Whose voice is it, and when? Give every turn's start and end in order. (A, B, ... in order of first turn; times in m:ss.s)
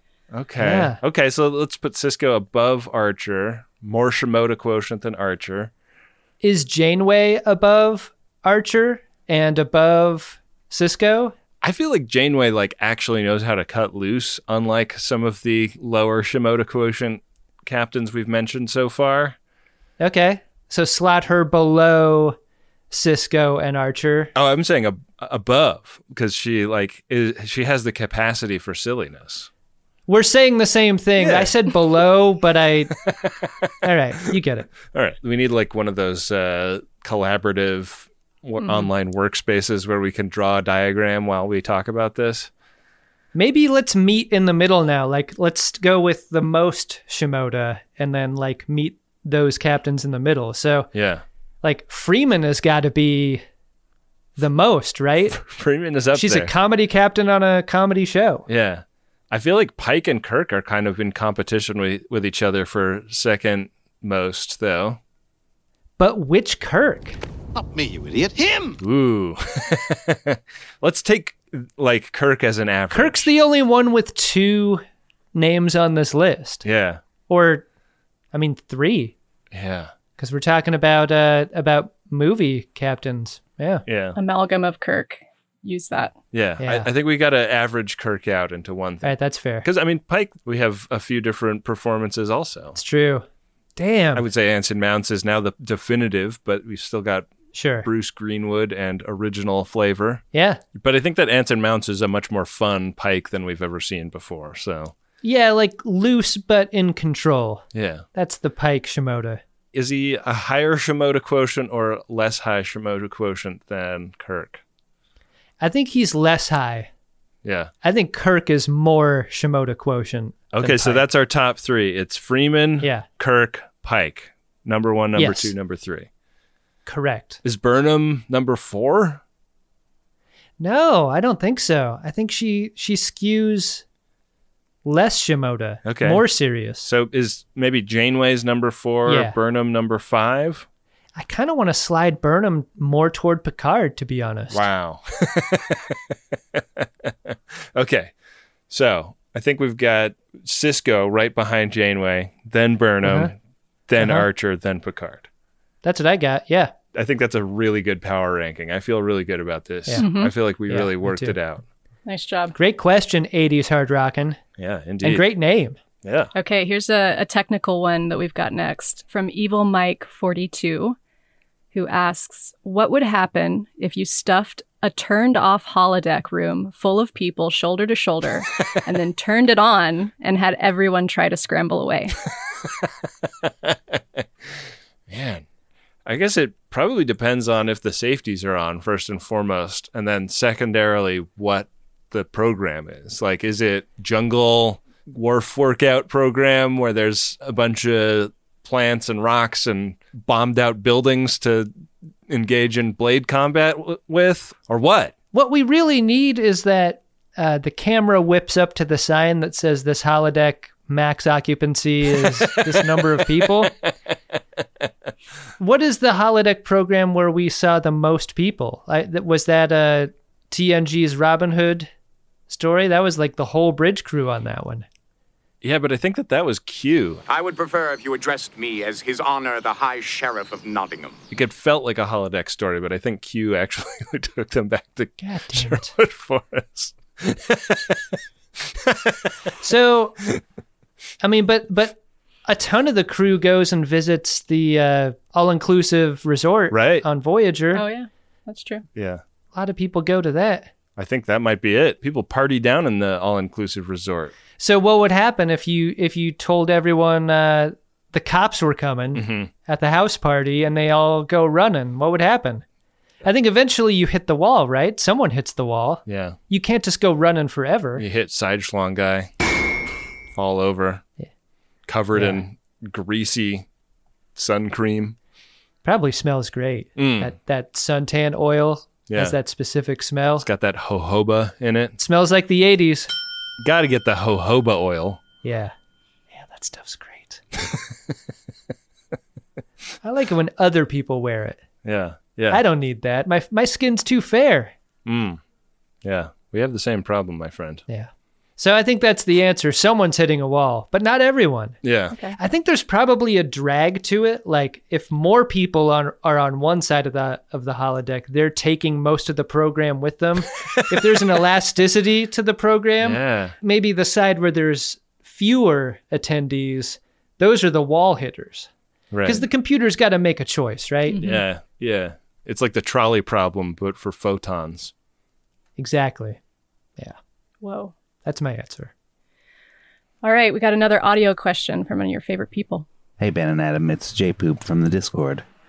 0:00.3-0:05.7 A
0:00.6-0:01.0 B
0:06.4-0:11.4 B
0:11.6-0:19.4 A
0:20.0-0:22.4 B
0:22.9-0:24.3 B
0:24.4-0:29.5 A
0:30.1-0:32.9 B
0:31.2-0:31.5 A
0:33.1-0:33.7 A
0:33.8-0:34.7 B
0:34.9-0:42.5 A
0:38.6-0:38.9 C
0:43.3-0:50.9 B
0:50.9-0:51.2 A
0:51.6-0:53.4 B
0:54.4-0:55.4 B
0:55.3-0:56.5 A
0:56.1-0:58.5 B
0:58.5-1:05.0 A
1:06.0-1:07.2 B
1:08.8-1:13.3 A
1:12.9-1:16.6 B
1:16.6-1:17.0 A
1:17.3-1:17.6 B
1:18.3-1:19.2 B
1:19.5-1:19.9 A
1:20.2-1:23.8 B
1:23.9-1:24.2 A
1:24.2-1:26.2 C
1:26.3-1:32.8 A
1:26.6-1:26.9 B
1:29.0-1:29.7 B
1:32.8-1:34.2 B
1:34.2-1:37.3 A
1:37.5-1:37.9 B
1:37.8-1:40.2 A
1:40.3-1:40.6 B
1:40.8-1:44.9 A
1:45.2-1:49.4 B
1:47.7-1:48.0 A
1:49.7-1:54.6 A
1:55.6-1:56.9 B
1:57.4-1:57.7 A
1:57.8-2:01.0 B
2:00.5-2:06.1 A
2:02.8-2:03.1 B
2:05.2-2:05.5 B
2:06.9-2:07.4 B
2:07.4-2:09.2 A
2:10.6-2:13.8 B
2:14.8-2:16.9 B
2:15.8-2:16.2 A
2:16.8-2:20.7 A
2:19.1-2:19.4 B
2:21.2-2:24.6 B
2:24.5-2:28.1 A
2:28.7-2:33.4 A
2:33.0-2:33.3 B
2:33.9-2:35.3 A
2:34.0-2:34.3 B
2:35.8-2:36.7 B
2:36.9-2:41.6 A
2:39.9-2:40.1 B
2:40.0-2:40.3 C
2:40.7-2:41.4 B
2:42.1-2:42.6 C
2:42.6-2:44.4 B
2:44.6-2:45.2 A
2:45.0-2:45.8 B
2:46.0-2:46.3 A
2:46.4-2:51.0 C
2:51.7-3:02.2 C
3:03.4-3:04.2 A
3:05.1-3:05.4 A
3:06.0-3:21.7 A
3:22.3-3:25.1 A
3:25.3-3:33.7 B
3:32.2-3:32.7 A
3:33.4-3:33.7 A
3:35.6-3:41.9 B
3:42.5-3:44.9 B
3:45.6-3:47.2 A
3:47.3-3:51.2 D
3:51.3-3:59.4 A
3:55.2-3:55.9 B
3:59.6-4:00.2 B
4:01.2-4:07.8 B
4:06.7-4:07.0 A
4:07.7-4:08.8 C
4:09.0-4:09.2 A
4:09.5-4:10.7 B
4:11.0-4:14.3 A
4:14.6-4:22.6 B
4:19.1-4:19.5 A
4:23.2-4:28.0 B
4:26.1-4:26.4 A
4:28.0-4:29.3 A
4:30.3-4:31.0 A
4:31.9-4:33.7 A
4:32.1-4:32.4 B
4:34.4-4:35.2 A
4:35.8-4:40.5 B
4:37.0-4:37.3 A
4:39.1-4:39.4 A
4:40.4-4:42.0 A
4:42.0-4:43.1 B
4:43.6-4:45.2 A
4:45.4-4:45.7 B
4:46.3-4:47.4 B
4:47.7-4:48.1 A
4:50.0-4:51.6 B
4:51.8-4:52.6 A
4:52.5-4:54.7 B
4:55.0-4:55.4 A
4:56.0-4:57.8 A
4:57.9-5:01.8 B
5:01.8-5:02.2 A
5:02.4-5:18.7 B
5:10.8-5:11.2 A
5:13.0-5:13.6 A
5:19.1-5:19.5 A
5:19.2-5:21.2 B
5:21.1-5:21.4 C
5:21.2-5:24.9 A
5:25.8-5:26.4 B
5:27.6-5:27.9 C
5:28.2-5:28.9 B
5:30.2-5:32.9 C
5:33.2-5:35.4 E